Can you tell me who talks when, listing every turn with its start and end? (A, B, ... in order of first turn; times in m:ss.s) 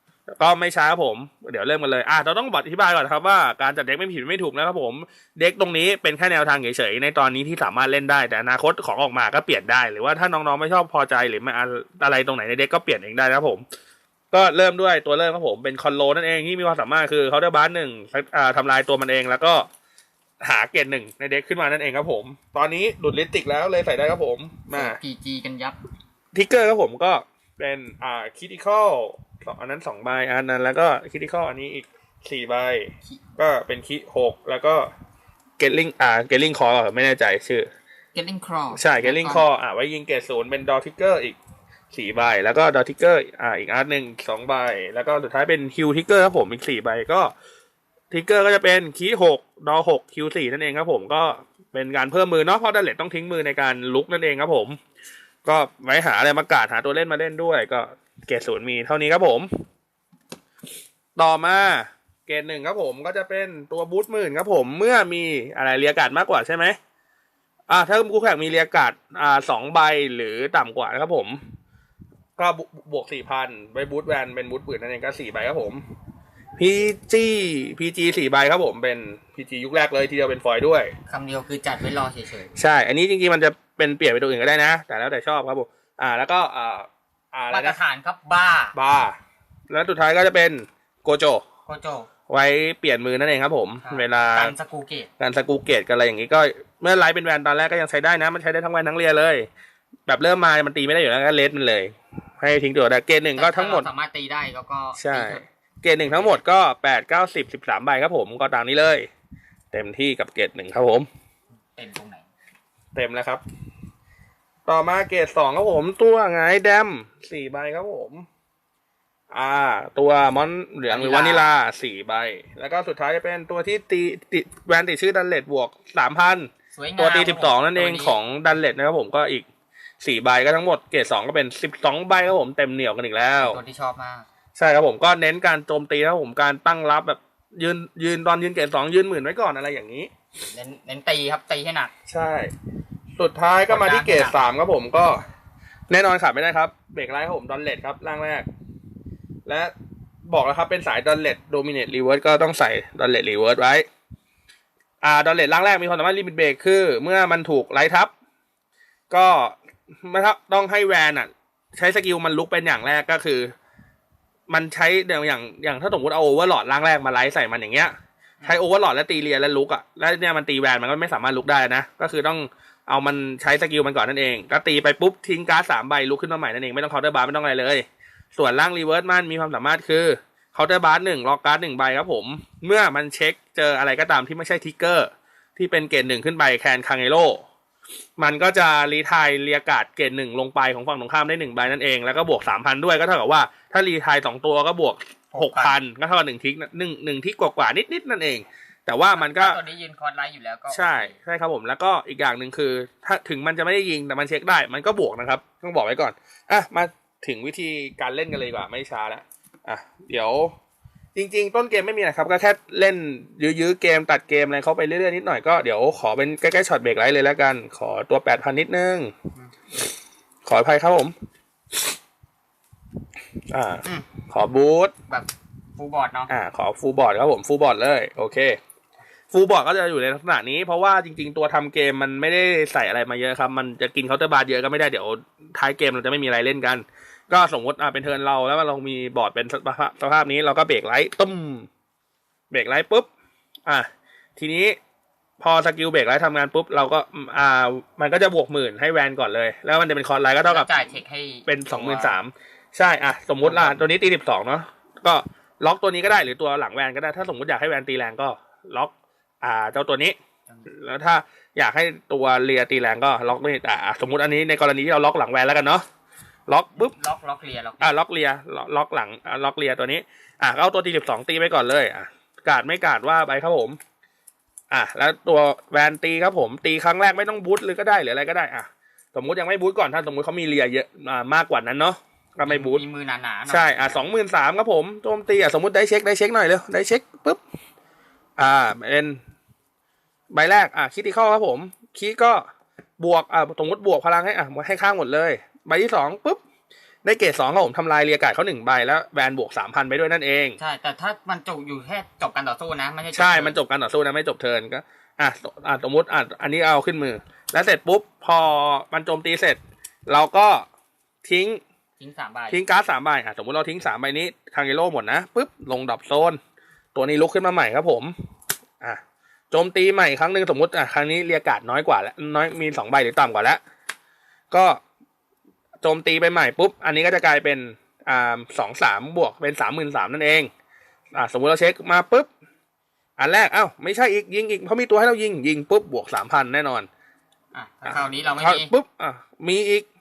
0:00.4-0:13.6 A
0:14.3-0:19.7 A
0:20.4-0:25.0 A
0:24.7-0:25.8 B
0:26.3-0:34.9 A
0:35.6-0:37.7 A
0:38.1-0:39.5 B
0:38.7-0:41.4 A
0:41.9-0:47.3 A
0:48.1-0:54.8 A
0:55.4-0:59.5 A
1:01.2-1:06.8 A
1:07.7-1:11.4 A
1:12.4-1:15.8 A
1:16.6-1:20.9 A
1:21.1-1:22.6 B
1:22.5-1:27.8 A
1:27.5-1:28.8 B
1:28.7-1:29.2 A
1:29.7-1:31.4 A
1:31.6-1:32.1 B
1:32.3-1:34.5 A
1:33.8-1:35.1 B
1:35.2-1:39.5 A
1:40.1-1:43.9 A
1:43.4-1:45.4 B
1:45.0-1:49.1 A
1:49.7-1:51.1 A
1:51.8-1:52.3 B
1:52.9-1:53.4 A
1:54.6-1:58.2 A
1:59.3-2:09.4 A
2:00.9-2:01.5 B
2:06.7-2:08.2 B
2:10.0-2:13.6 A
2:13.4-2:14.2 B
2:14.5-2:20.1 A
2:20.5-2:21.9 B
2:22.1-2:22.5 A
2:23.2-2:25.2 A
2:23.7-2:24.4 B
2:25.9-2:28.5 A
2:29.4-2:29.7 A
2:30.3-2:33.8 A
2:35.0-2:38.1 A
2:39.1-2:43.5 A
2:44.5-3:07.4 A
3:08.2-3:19.6 A
3:15.3-3:15.8 B
3:19.1-3:21.1 B
3:20.7-3:30.5 A
3:31.1-3:39.1 A
3:40.4-3:41.1 A
3:43.5-3:44.9 A
3:45.1-3:46.3 B
3:46.3-3:48.6 A
3:49.3-4:01.7 A
4:02.5-4:03.1 A
4:03.7-4:04.8 A
4:05.4-4:10.7 A
4:10.4-4:12.2 B
4:11.4-4:20.2 A
4:13.4-4:13.8 B
4:20.7-4:25.8 A
4:26.5-4:26.9 A
4:26.7-4:27.9 B
4:27.8-4:33.8 A
4:34.7-4:42.8 A
4:42.4-4:44.0 B
4:43.5-4:47.4 A
4:48.4-4:49.2 A
4:50.3-4:52.4 A
4:53.0-4:56.4 A
4:57.0-5:00.6 A
5:00.6-5:03.6 B
5:03.1-5:10.6 A
5:11.2-5:11.6 A
5:12.0-5:12.6 B
5:12.5-5:16.4 A
5:16.9-5:18.1 A
5:18.8-5:23.6 A
5:24.5-5:24.8 A
5:25.8-5:30.5 A
5:31.1-5:32.3 A
5:33.2-5:36.9 A
5:37.5-5:38.7 B
5:37.8-5:39.8 A